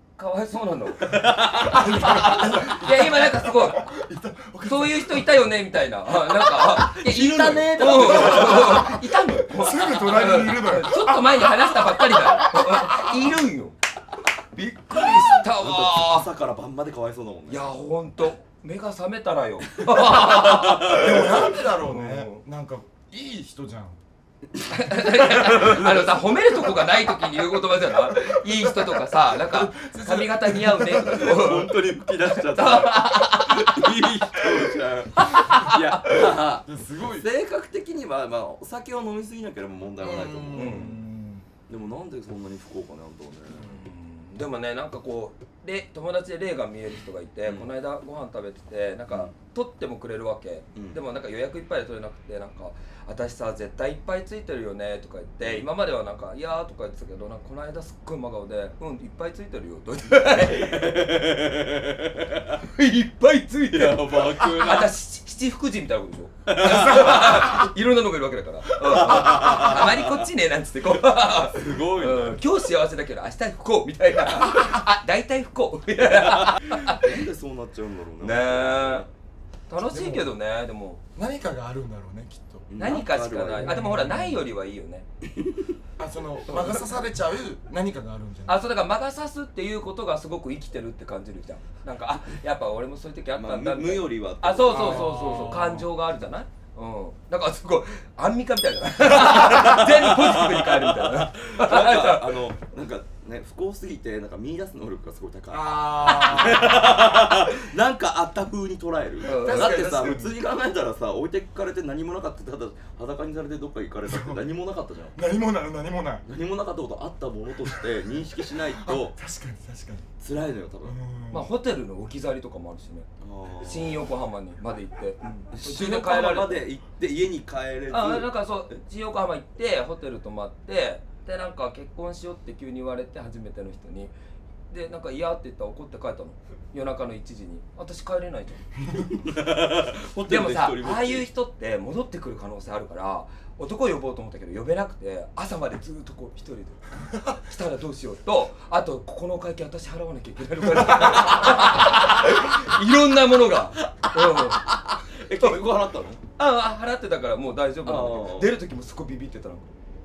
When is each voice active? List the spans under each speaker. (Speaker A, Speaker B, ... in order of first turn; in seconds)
Speaker A: 0.2-3.9, 4.6-13.8, 14.9-16.3, 17.5-22.4, 24.7-31.8, 32.4-33.9, 35.2-35.9, 40.5-41.0, 43.6-61.0, 62.6-77.0, 78.2-79.1, 79.7-81.0, 82.8-85.1, 86.5-86.8, 88.5-102.3, 109.2-109.8, 121.3-123.1, 123.6-126.7, 127.9-134.1, 134.7-138.8, 140.3-154.8, 156.4-159.7
Speaker B: 1.1-5.5, 8.0-9.0, 9.5-13.3, 14.6-15.4, 20.9-24.0, 28.5-31.3, 36.6-37.3, 40.0-41.5, 79.8-80.3, 81.2-82.8, 83.6-84.4, 86.0-88.6, 94.7-95.9, 105.5-107.0, 109.3-110.4, 114.1-114.4, 115.2-116.2, 118.7-120.1, 120.8-121.5
Speaker C: 1.1-2.2, 6.4-9.0, 15.1-17.7, 19.9-21.3, 25.4-25.9, 31.0-41.0, 41.7-43.8, 47.5-47.7, 50.7-51.0, 55.4-55.7, 60.4-62.5, 63.7-64.9, 66.5-67.5, 68.9-70.1, 71.3-72.4, 76.3-79.1, 82.7-83.8, 93.3-95.4, 99.2-115.2, 116.2-119.2, 120.2-121.0, 123.2-124.1, 125.2-128.8, 139.1-141.3, 154.4-156.2, 157.8-158.6